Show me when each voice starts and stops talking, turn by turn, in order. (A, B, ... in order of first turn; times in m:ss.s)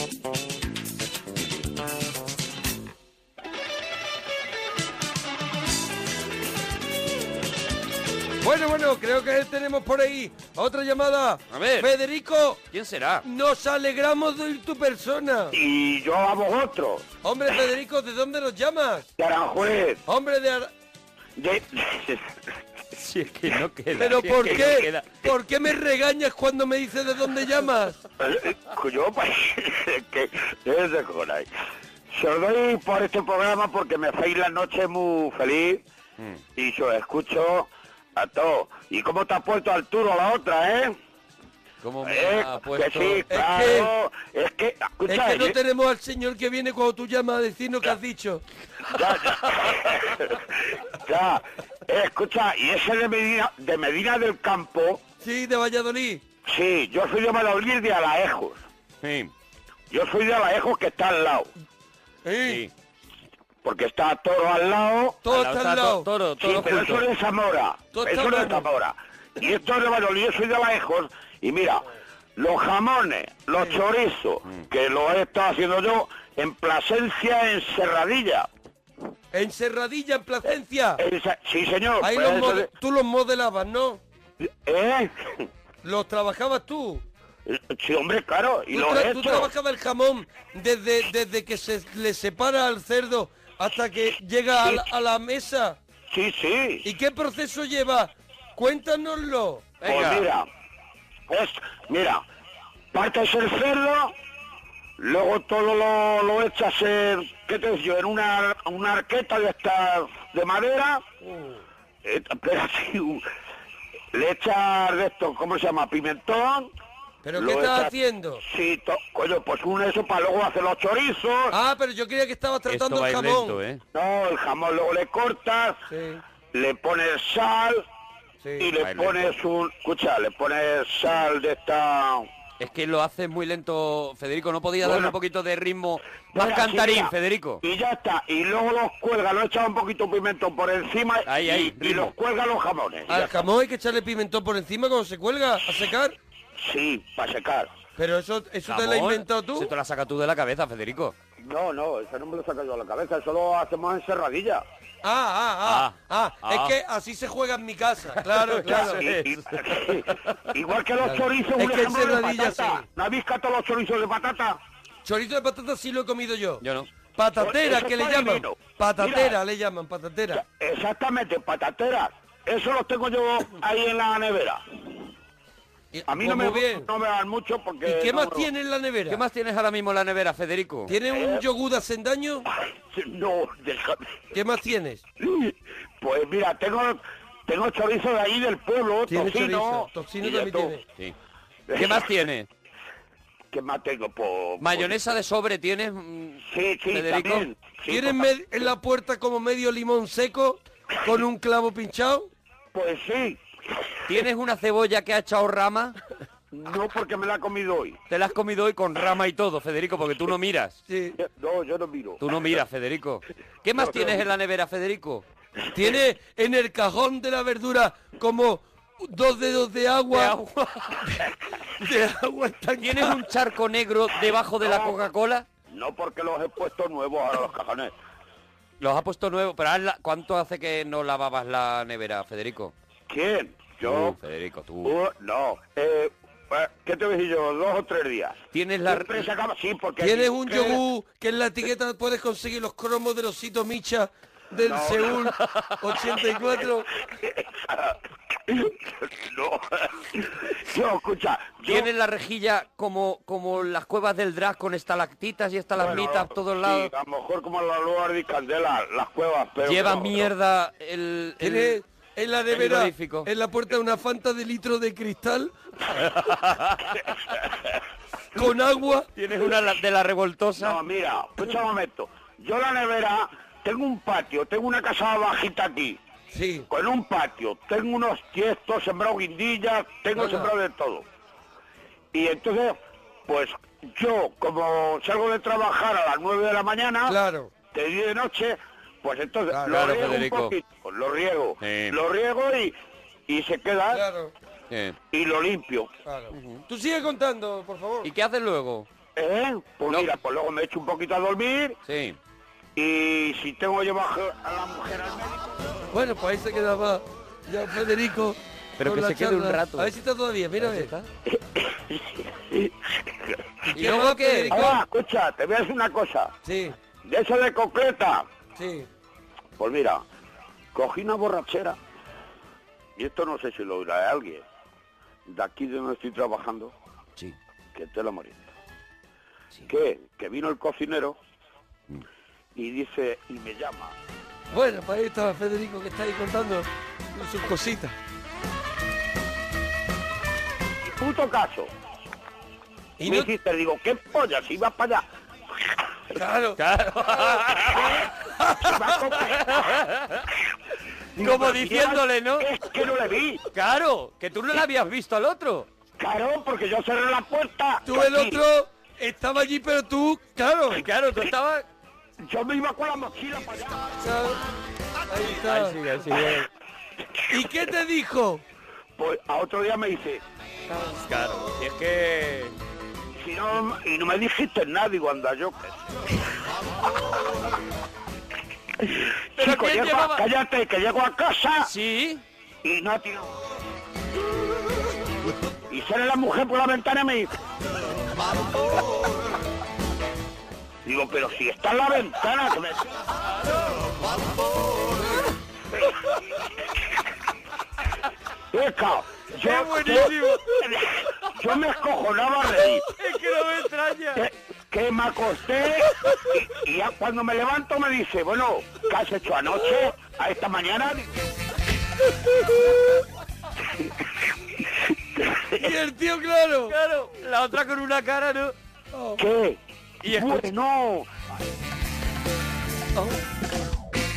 0:08.4-0:12.6 A
0:11.5-0:11.9 B
0:12.7-0:13.2 B
0:13.2-0:15.6 A
0:15.5-0:17.0 C
0:17.2-0:19.1 A
0:19.2-0:20.0 C
0:20.1-0:20.7 A
0:21.4-0:22.4 C
0:22.9-0:25.1 B
0:24.0-0:28.0 A
0:28.2-0:31.5 C
0:32.1-0:35.8 C
0:36.6-0:41.0 C
0:41.8-0:43.2 B
0:42.0-0:45.6 C
0:43.3-0:43.9 A
0:45.1-0:48.4 A
0:48.9-0:55.0 C
0:55.2-0:56.2 A
0:56.4-0:58.6 C
0:59.0-0:59.3 B
0:59.9-1:01.5 C
1:02.2-1:02.6 A
1:02.4-1:02.7 B
1:03.6-1:05.2 C
1:05.2-1:06.1 A
1:05.3-1:07.0 B
1:06.4-1:11.8 C
1:07.9-1:08.7 A
1:12.4-1:18.5 C
1:19.3-1:21.0 A
1:21.0-1:22.7 C
1:22.0-1:24.0 A
1:24.4-1:25.4 C
1:25.8-1:27.0 A
1:27.4-1:29.5 C
1:28.7-1:35.8 A
1:36.1-1:36.8 C
1:36.8-1:39.8 A
1:39.8-1:40.3 B
1:39.8-1:40.4 C
1:41.3-1:42.2 C
1:42.9-1:44.1 C
1:45.0-1:51.0 C
1:51.2-1:51.6 A
1:52.0-1:53.2 C
1:54.1-1:56.7 C
1:57.2-1:58.4 A
1:57.3-2:01.5 C
2:01.5-2:03.6 A
2:02.7-2:03.8 B
2:03.9-2:05.8 C
2:05.9-2:06.2 A
2:06.5-2:07.8 C
2:08.4-2:08.7 A
2:08.6-2:12.3 C
2:08.8-2:09.2 B
2:12.6-2:17.6 B
2:14.8-2:15.1 C
2:16.3-2:23.3 C
2:21.2-2:22.1 B
2:23.1-2:26.2 A
2:26.6-2:27.7 C
2:28.0-2:29.7 A
2:28.7-2:31.1 B
2:31.4-2:34.6 C
2:35.0-2:39.0 A
2:35.6-2:36.7 B
2:38.2-2:40.4 B
2:38.7-2:44.6 C
2:41.0-2:42.8 A
2:45.0-2:46.6 A
2:46.6-2:46.9 B
2:47.1-2:50.4 A
2:47.4-2:49.4 C
2:50.3-2:54.6 C
2:55.9-2:56.9 A
2:56.1-2:58.5 C
2:57.8-2:59.2 A
2:59.1-3:00.9 B
3:00.9-3:02.5 A
3:01.1-3:01.4 C
3:02.5-3:04.1 C
3:04.3-3:05.0 A
3:05.2-3:10.7 C
3:09.1-3:10.8 A
3:11.7-3:12.1 C
3:11.7-3:12.5 B
3:13.5-3:15.0 C
3:14.6-3:17.5 B
3:16.5-3:18.2 C
3:17.9-3:22.3 A
3:22.7-3:23.4 C
3:24.1-3:26.0 B
3:26.5-3:28.0 C
3:28.1-3:30.8 B
3:30.9-3:31.2 A
3:31.2-3:32.3 C
3:32.2-3:35.2 B
3:33.8-3:34.2 C
3:35.7-3:40.4 A
3:40.1-3:41.0 B
3:41.8-3:43.2 A
3:42.8-3:45.4 B
3:44.6-3:45.0 C
3:45.7-3:47.9 C
3:48.8-3:52.7 B
3:53.1-3:54.2 C
3:53.8-3:54.9 B
3:54.8-4:00.8 C
3:58.5-3:59.2 B
4:00.0-4:06.9 A
4:04.6-4:05.1 C
4:07.2-4:08.0 C
4:08.5-4:11.9 C
4:11.6-4:16.9 B
4:15.7-4:20.3 C
4:19.6-4:21.8 B
4:21.4-4:25.5 A
4:22.5-4:23.3 B
4:26.0-4:26.9 B
4:28.3-4:29.1 A
4:29.1-4:30.8 B
4:30.6-4:36.0 C
4:36.3-4:36.7 A
4:36.7-4:41.0 C
4:40.2-4:40.5 A
4:42.1-4:47.2 C
4:47.1-4:47.5 A
4:47.7-4:52.7 C
4:49.5-4:49.9 A
4:49.7-4:50.5 B
4:51.6-4:52.0 B
4:53.3-4:54.0 C
4:53.9-4:54.3 A
4:54.7-4:55.0 B
4:55.1-4:55.9 C
4:56.0-4:58.1 A
4:56.3-4:56.6 B
4:58.0-4:58.9 B
4:59.2-5:01.8 C
5:01.8-5:02.2 B
5:02.8-5:05.6 C
5:05.9-5:11.0 A
5:08.8-5:09.9 B
5:10.6-5:10.9 B
5:11.3-5:13.4 C
5:13.7-5:14.8 A
5:13.7-5:14.7 B
5:14.5-5:16.3 C
5:16.4-5:16.7 A
5:17.0-5:18.2 C
5:18.6-5:18.9 A
5:19.6-5:20.0 C
5:20.7-5:21.8 C
5:23.0-5:24.4 C
5:25.3-5:26.7 C
5:27.7-5:28.5 C
5:29.7-5:31.2 C
5:32.5-5:33.9 C
5:34.5-5:37.9 A
5:41.0-5:41.7 C
5:43.0-5:43.3 A
5:43.0-5:45.0 C
5:46.1-5:46.6 A
5:46.6-5:47.9 B
5:47.1-5:49.0 A
5:48.6-5:49.5 C
5:49.4-5:50.2 B
5:51.2-5:53.4 C
5:51.2-5:52.5 B
5:53.5-5:55.7 B
5:56.0-5:58.4 C
5:57.8-6:00.8 A
6:00.7-6:01.6 B
6:02.2-6:03.9 C
6:04.0-6:04.4 A
6:05.1-6:05.8 A
6:05.4-6:06.5 B
6:07.3-6:08.4 A
6:09.0-6:10.2 C
6:10.7-6:12.5 B
6:13.2-6:15.7 C
6:19.4-6:21.7 C
6:19.4-6:20.2 B
6:21.6-6:22.2 B
6:22.6-6:23.4 C
6:25.7-6:27.3 C
6:30.8-6:33.0 C
6:38.5-6:42.8 C
6:39.4-6:40.4 A
6:43.0-6:44.2 A
6:44.2-6:51.1 C
6:55.2-6:55.6 C
6:55.6-6:56.8 A
6:56.7-6:58.5 B
6:58.9-6:59.2 A
6:59.2-7:01.1 C
7:00.0-7:00.5 B